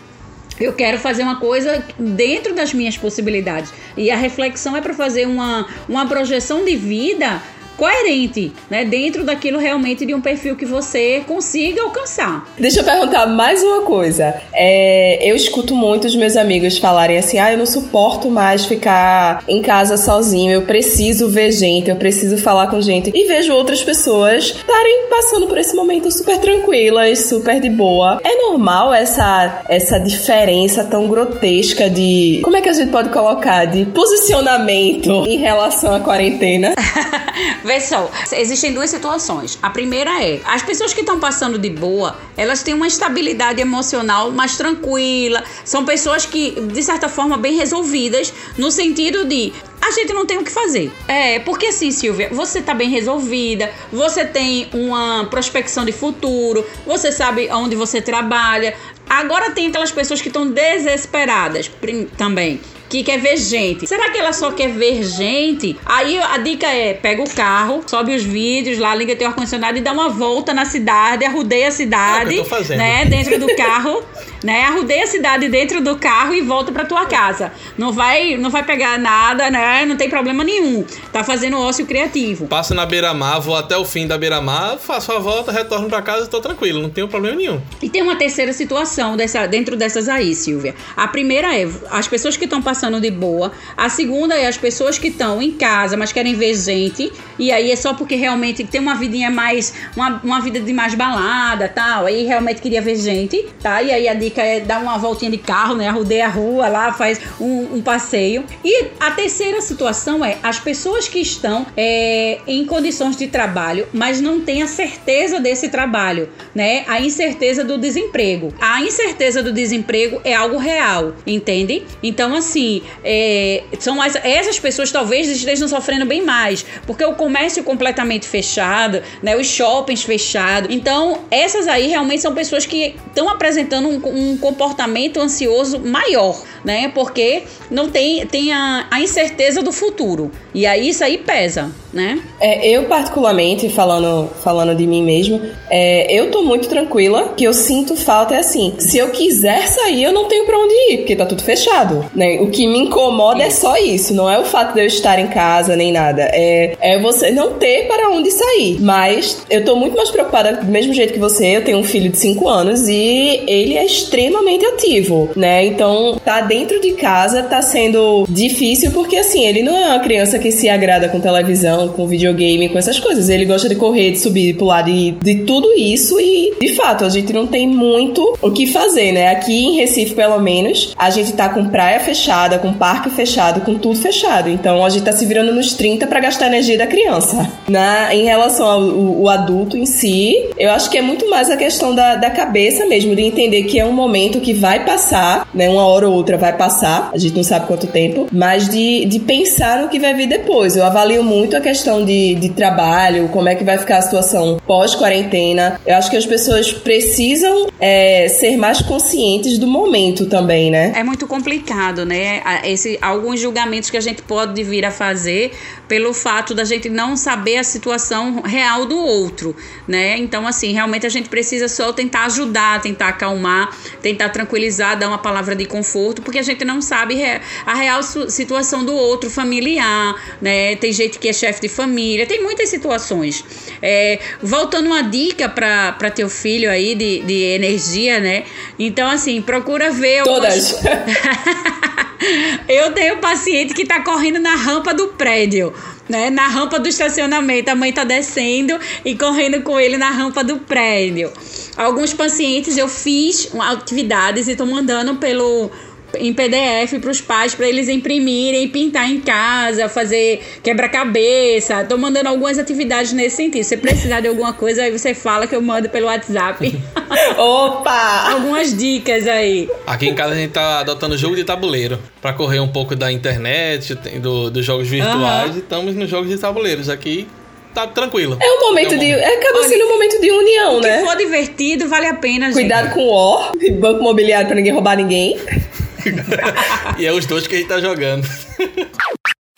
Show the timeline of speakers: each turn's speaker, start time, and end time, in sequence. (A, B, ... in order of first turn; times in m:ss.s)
0:00.6-0:12.5 A
0:12.6-0:36.8 B
0:36.8-1:22.5 A
1:12.1-1:13.3 C
1:22.5-1:27.6 C
1:27.8-2:22.2 A
2:22.4-3:31.0 B
2:33.3-2:33.6 A
3:30.9-4:27.2 A
4:00.2-4:01.1 B
4:27.2-4:28.4 B
4:28.2-4:29.7 A
4:29.9-4:39.2 C
4:35.0-4:35.5 A
4:38.4-4:41.1 B
4:39.5-4:39.9 A
4:40.7-4:42.9 A
4:42.5-4:45.4 B
4:46.0-4:48.8 C